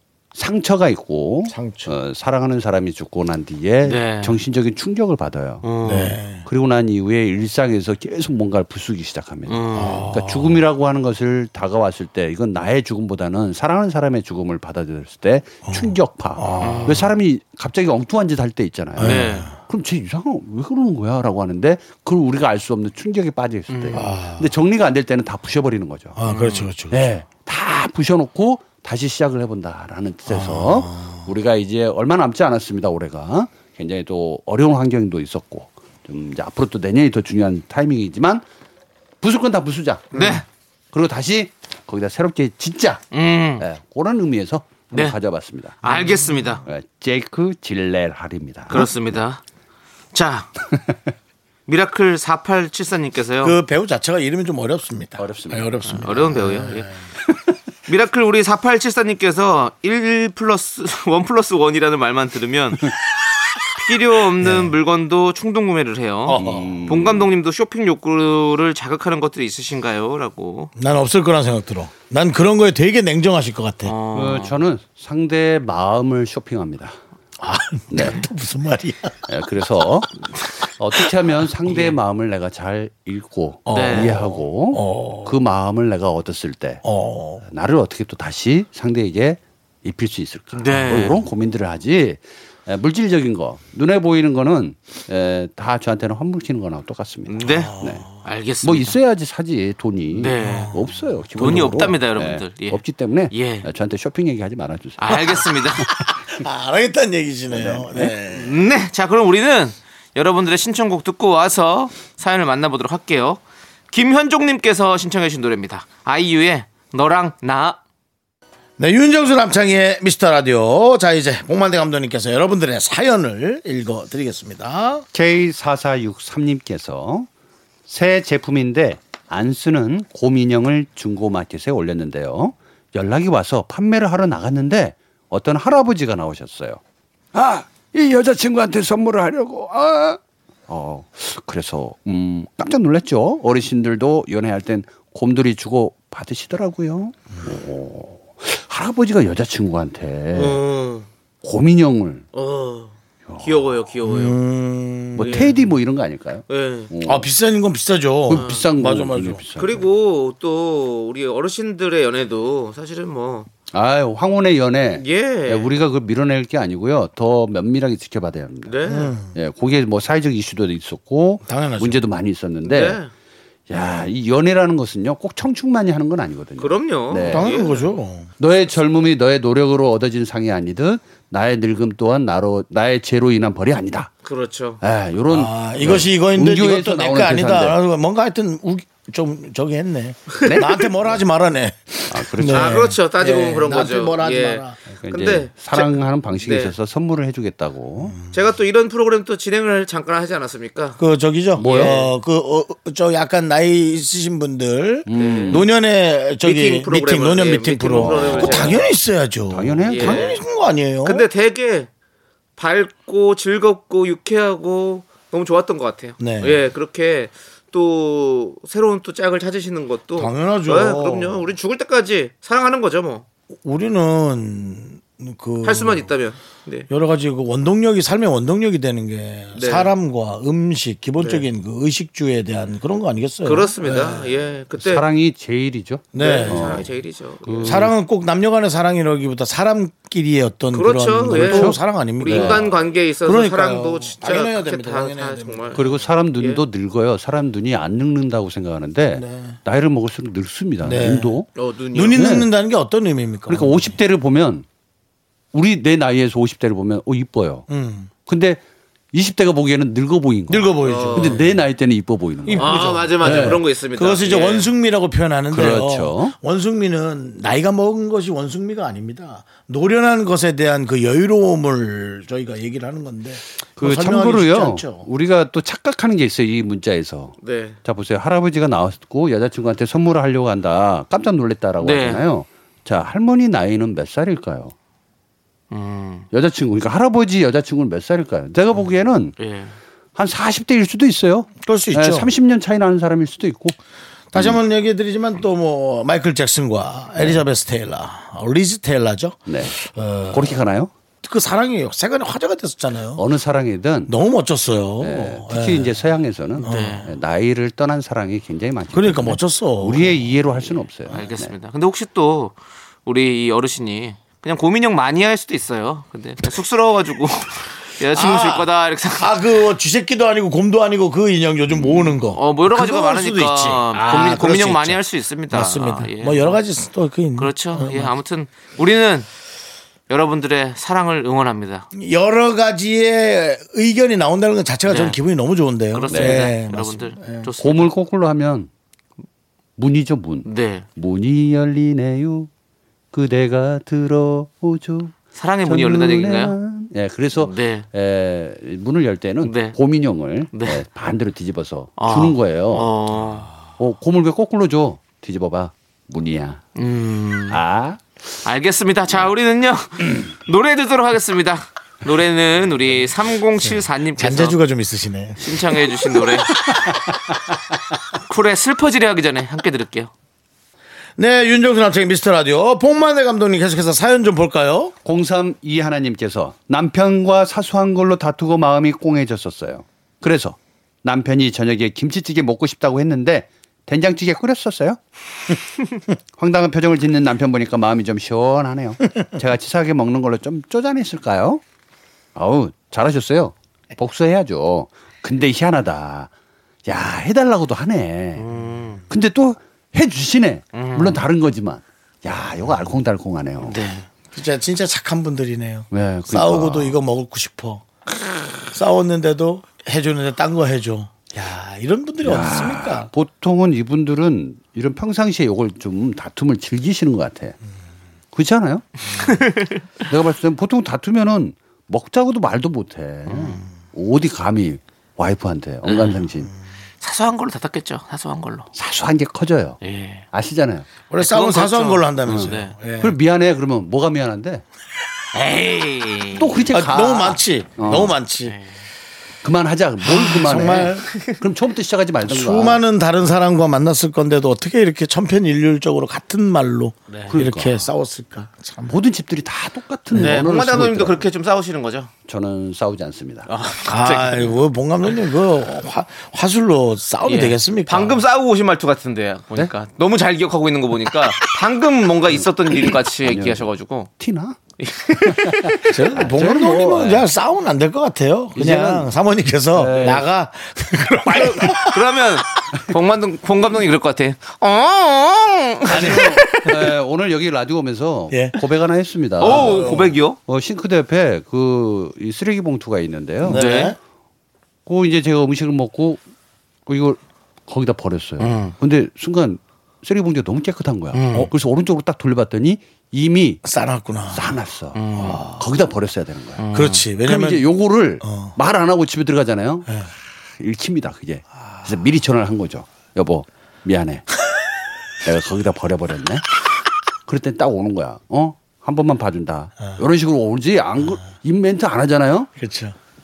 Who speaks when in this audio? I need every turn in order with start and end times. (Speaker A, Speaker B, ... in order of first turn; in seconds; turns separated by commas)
Speaker A: 0.3-5.7, Speaker B: 1.5-1.9, Speaker C: 3.8-4.3, Speaker C: 5.6-6.2, Speaker B: 5.8-6.5, Speaker A: 6.4-26.2, Speaker C: 9.5-10.1, Speaker B: 9.8-10.6, Speaker B: 15.7-17.0, Speaker C: 16.6-17.1, Speaker B: 19.0-19.5, Speaker C: 19.0-19.5, Speaker C: 23.7-24.1, Speaker B: 23.9-24.5, Speaker B: 26.1-27.0, Speaker C: 26.3-26.7, Speaker A: 26.9-38.4, Speaker B: 30.3-31.2, Speaker A: 39.2-43.0, Speaker C: 40.1-40.4, Speaker C: 43.1-43.6, Speaker A: 43.6-46.0, Speaker C: 45.8-46.6, Speaker A: 46.6-48.9, Speaker C: 48.7-49.4, Speaker C: 50.1-50.5, Speaker C: 51.7-53.6, Speaker B: 53.4-56.9, Speaker A: 55.2-55.8, Speaker C: 55.9-56.9, Speaker C: 57.9-62.9, Speaker C: 63.7-70.7, Speaker B: 64.4-64.7, Speaker B: 66.2-66.8, Speaker A: 66.3-67.3, Speaker B: 70.8-73.9, Speaker C: 73.8-74.5, Speaker A: 74.1-77.0, Speaker B: 77.4-79.2, Speaker A: 77.9-78.2, Speaker A: 79.3-86.8, Speaker C: 81.7-81.9, Speaker B: 83.7-85.4, Speaker C: 83.7-84.1, Speaker B: 86.8-87.4, Speaker A: 87.4-98.1, Speaker C: 90.5-91.2, Speaker C: 97.3-99.0, Speaker B: 97.4-98.0, Speaker A: 98.6-105.5, Speaker C: 100.1-100.8, Speaker B: 100.5-100.9, Speaker C: 101.4-102.8, Speaker C: 103.3-103.7, Speaker C: 105.0-105.9, Speaker B: 106.3-108.5, Speaker A: 107.5-108.1, Speaker C: 108.3-113.4, Speaker C: 113.9-117.8, Speaker B: 118.8-125.0, Speaker A: 125.1-127.3, Speaker A: 127.9-136.8, Speaker A: 137.3-150.6, Speaker C: 150.3-151.1, Speaker A: 151.4-152.3, Speaker C: 152.3-154.4, Speaker A: 153.3-153.7, Speaker B: 154.0-155.4, Speaker A: 155.2-157.3, Speaker C: 155.2-155.5, Speaker C: 156.5-156.9, Speaker B: 157.0-159.4, Speaker A: 158.3-159.8, Speaker C: 158.3-158.6, Speaker C: 159.6-163.5, Speaker A: 163.7-168.8, Speaker C: 164.9-165.7, Speaker C: 168.7-169.1, Speaker B: 168.8-169.3, Speaker A: 169.3-173.0, Speaker B: 171.4-172.0, Speaker C: 172.6-173.1, Speaker A: 173.7-177.5, Speaker C: 176.6-177.8, Speaker B: 177.2-178.3, Speaker A: 178.4-184.1, Speaker C: 184.2-184.8, Speaker A: 184.8-187.8, Speaker B: 185.3-194.8, Speaker A: 190.4-191.2, Speaker A: 192.1-192.9, Speaker C: 192.5-196.7, Speaker A: 194.9-198.2, Speaker B: 198.1-198.4, Speaker C: 198.3-201.0, Speaker B: 201.0-211.3, Speaker A: 201.6-202.0, Speaker C: 201.6-202.1, Speaker A: 205.1-205.7, Speaker C: 205.1-205.6, Speaker C: 206.4-208.8, Speaker A: 207.9-208.8, Speaker A: 209.5-210.3, Speaker C: 209.9-210.4, Speaker C: 211.0-211.9, Speaker C: 212.6-223.2, Speaker B: 216.2-216.6, Speaker B: 220.2-221.5, Speaker B: 223.6-226.1, Speaker C: 225.6-226.9, Speaker B: 226.9-234.3, Speaker C: 229.5-229.9, Speaker C: 231.2-231.4, Speaker C: 233.4-235.0, Speaker A: 234.8-236.9, Speaker B: 236.1-236.8, Speaker C: 236.2-237.8, Speaker A: 237.4-237.9, Speaker B: 237.6-245.9, Speaker C: 240.7-246.6, Speaker A: 241.3-242.7, Speaker A: 245.7-251.5, Speaker B: 249.1-249.6, Speaker B: 250.8-251.4, Speaker C: 251.6-252.2, Speaker B: 251.9-254.0, Speaker A: 252.1-252.5, Speaker A: 253.5-254.7, Speaker A: 255.5-257.7, Speaker B: 257.7-258.1, Speaker A: 258.3-258.6, Speaker A: 259.1-263.6, Speaker B: 260.5-261.5, Speaker C: 260.8-261.4, Speaker B: 262.4-275.1, Speaker C: 262.6-264.7, Speaker A: 265.5-266.3, Speaker A: 273.8-284.7, Speaker C: 277.4-277.8, Speaker C: 281.8-282.2, Speaker C: 285.7-286.2, Speaker A: 286.3-289.4, Speaker C: 289.4-289.8, Speaker A: 290.1-293.8, Speaker B: 291.6-292.3, Speaker B: 294.3-300.6, Speaker A: 297.2-297.4, Speaker A: 299.5-299.8, Speaker A: 300.3-300.9, Speaker B: 301.2-303.2, Speaker A: 303.1-304.1, Speaker B: 304.1-306.0, Speaker A: 305.0-311.5, Speaker B: 306.6-307.0, Speaker C: 306.6-307.1, Speaker B: 308.9-310.2, Speaker C: 311.1-319.4, Speaker B: 318.1-328.1, Speaker C: 322.3-326.6, Speaker C: 327.4-329.3, Speaker C: 330.1-331.9, Speaker B: 331.9-337.5, Speaker C: 334.9-335.2, Speaker C: 335.9-337.9, Speaker A: 336.1-336.5, Speaker A: 337.6-338.7, Speaker A: 339.8-342.5, Speaker C: 340.4-340.9, Speaker A: 343.1-345.1, Speaker C: 345.3-346.5, Speaker A: 345.6-352.9, Speaker C: 347.4-347.9, Speaker C: 349.4-349.8, Speaker C: 350.5-350.8, Speaker C: 352.0-353.5, Speaker A: 353.8-356.6, Speaker C: 356.8-357.6, Speaker A: 357.5-358.0, Speaker C: 358.4-364.6, Speaker B: 364.1-365.6, Speaker C: 365.4-366.5, Speaker A: 366.6-367.3, Speaker C: 368.2-370.1, Speaker B: 371.2-374.9, Speaker A: 375.0-385.0, Speaker A: 386.4-391.6, Speaker A: 392.3-396.3, Speaker A: 396.9-398.5, Speaker C: 398.4-399.0, Speaker A: 399.1-403.8, Speaker C: 400.7-401.2, Speaker C: 403.6-404.1, Speaker B: 404.3-407.8, Speaker A: 405.9-406.9, Speaker B: 408.7-413.1, Speaker A: 412.2-417.6, Speaker A: 418.3-419.0, Speaker C: 419.2-419.8, Speaker A: 420.1-426.5, Speaker C: 423.3-423.6, Speaker C: 425.8-426.2, Speaker C: 427.0-428.7, Speaker A: 428.7-429.8, Speaker C: 429.8-430.2, Speaker A: 430.3-430.9, Speaker B: 431.1-433.1, Speaker C: 431.2-432.7, Speaker A: 432.2-434.6, Speaker C: 435.3-436.6, Speaker A: 436.4-438.1, Speaker B: 436.7-438.6, Speaker C: 438.4-438.7, Speaker A: 439.4-442.8, Speaker B: 440.0-441.2, Speaker B: 442.2-449.0, Speaker C: 447.1-447.4, Speaker A: 447.3-447.9, Speaker A: 448.9-451.3, Speaker B: 450.1-450.4, Speaker C: 450.1-452.1, Speaker A: 452.3-453.5, Speaker C: 453.5-454.6, Speaker B: 453.8-458.2, Speaker C: 457.2-464.1, Speaker A: 462.4-464.6, Speaker C: 464.8-465.8, Speaker A: 465.2-467.3, Speaker B: 465.8-472.0, Speaker A: 468.6-469.1, Speaker A: 469.7-470.2, Speaker C: 471.3-476.7, Speaker A: 475.9-483.6, Speaker B: 475.9-476.8, Speaker B: 478.3-478.6, Speaker C: 479.4-480.4, Speaker B: 479.4-480.1, Speaker B: 483.4-484.0, Speaker C: 483.5-483.9, Speaker A: 484.9-486.2, Speaker A: 486.9-493.6, Speaker C: 488.4-488.7, Speaker C: 491.1-491.5, Speaker B: 493.6-494.6, Speaker A: 494.3-496.6, Speaker C: 494.9-495.4, Speaker B: 495.2-495.6, Speaker C: 496.6-497.0, Speaker B: 496.7-497.6, Speaker A: 497.2-499.9, Speaker B: 498.2-498.6, Speaker A: 500.6-504.3, Speaker A: 505.2-506.4, Speaker A: 507.3-512.5, Speaker B: 512.6-513.0